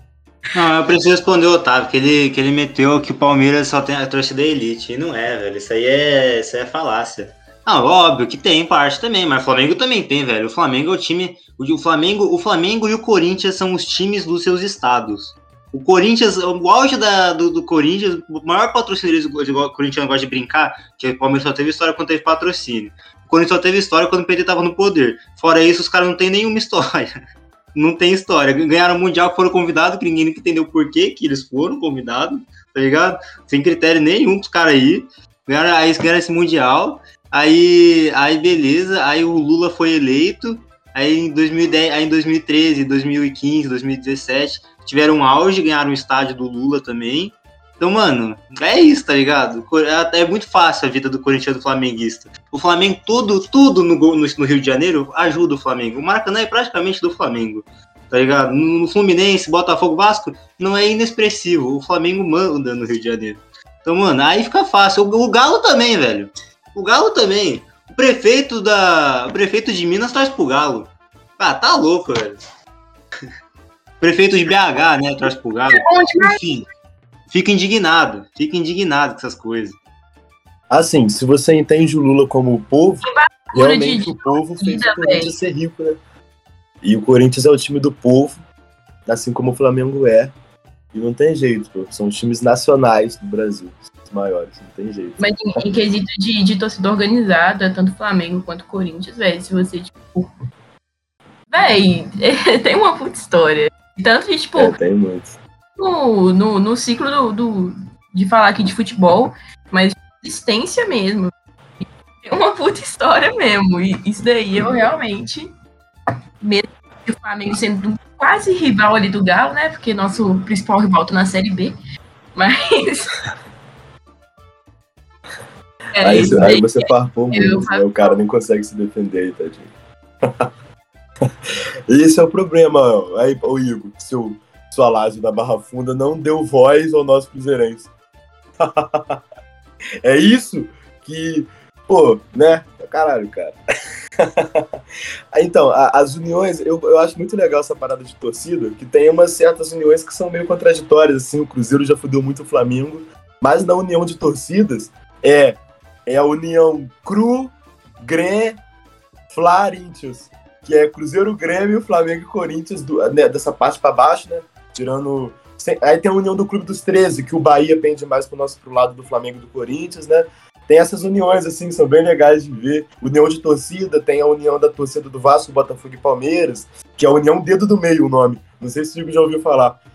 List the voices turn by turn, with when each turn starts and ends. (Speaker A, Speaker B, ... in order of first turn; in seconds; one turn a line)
Speaker A: 0.5-27.2
Speaker A: 27.8-72.4
Speaker A: 74.0-76.7
Speaker B: 75.7-76.4
Speaker A: 77.3-79.8
Speaker C: 80.7-86.0
Speaker B: 83.1-85.3
Speaker C: 86.8-88.4
Speaker C: 89.1-90.3
Speaker C: 90.9-95.6
Speaker B: 95.2-100.3
Speaker B: 101.5-104.7
Speaker C: 104.6-105.4
Speaker B: 105.8-111.3
Speaker B: 112.2-115.5
Speaker B: 116.4-121.7
Speaker B: 122.3-123.1
Speaker B: 125.9-128.2
Speaker C: 126.0-129.7
Speaker C: 131.9-137.9
Speaker C: 138.6-139.2
Speaker C: 140.0-143.6
Speaker C: 144.2-144.8
Speaker C: 145.3-158.6
Speaker C: 159.3-179.8